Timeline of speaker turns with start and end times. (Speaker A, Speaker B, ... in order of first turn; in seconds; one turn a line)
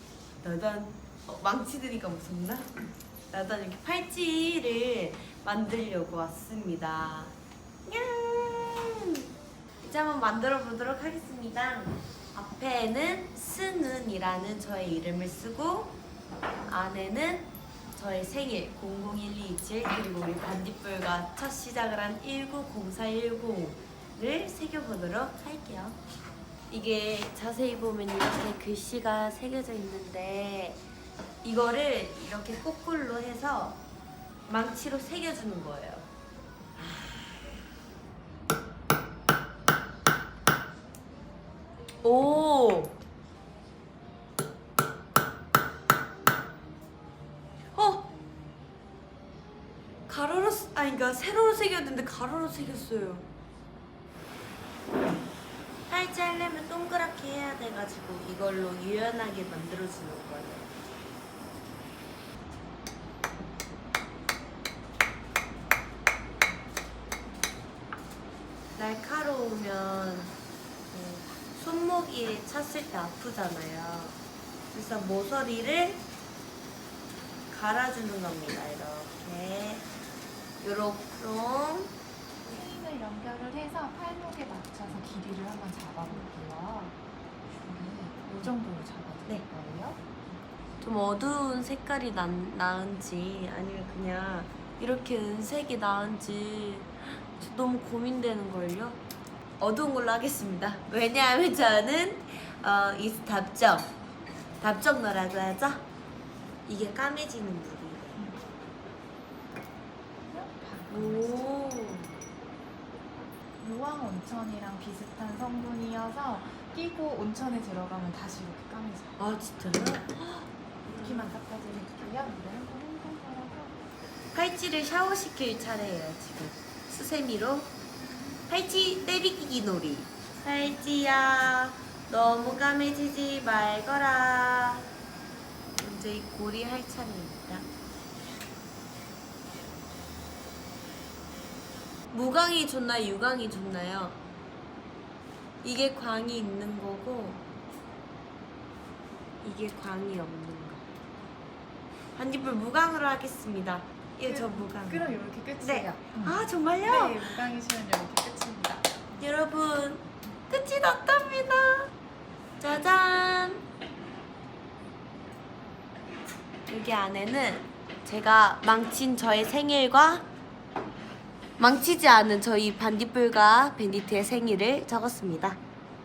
Speaker A: 0.4-7.3
Speaker A: 7.8-9.2
Speaker A: 9.8-16.0
Speaker A: 16.7-26.0
Speaker A: 26.7-30.8
Speaker A: 31.4-33.8
Speaker A: 34.5-36.1
Speaker A: 36.8-37.3
Speaker A: 42.0-42.9
Speaker A: 47.7-48.1
Speaker A: 50.1-53.3
Speaker A: 55.9-60.7
Speaker A: 68.8-70.3
Speaker A: 70.9-74.2
Speaker A: 74.7-76.0
Speaker A: 77.5-79.9
Speaker A: 80.6-81.9
Speaker B: 82.4-87.0
Speaker B: 87.6-90.4
Speaker A: 90.8-99.0
Speaker A: 99.6-103.9
Speaker A: 104.6-105.8
Speaker A: 106.7-108.2
Speaker B: 108.2-108.4
Speaker B: 110.2-111.4
Speaker A: 110.9-112.2
Speaker B: 113.6-119.2
Speaker A: 119.2-121.3
Speaker B: 120.9-123.8
Speaker A: 124.3-127.7
Speaker A: 128.5-134.9
Speaker A: 135.8-137.7
Speaker A: 142.1-144.2
Speaker A: 145.6-147.4
Speaker A: 149.4-150.8
Speaker A: 152.2-157.4
Speaker B: 154.2-159.1
Speaker A: 159.2-161.9
Speaker A: 162.6-163.6
Speaker A: 166.7-170.2
Speaker A: 171.6-175.6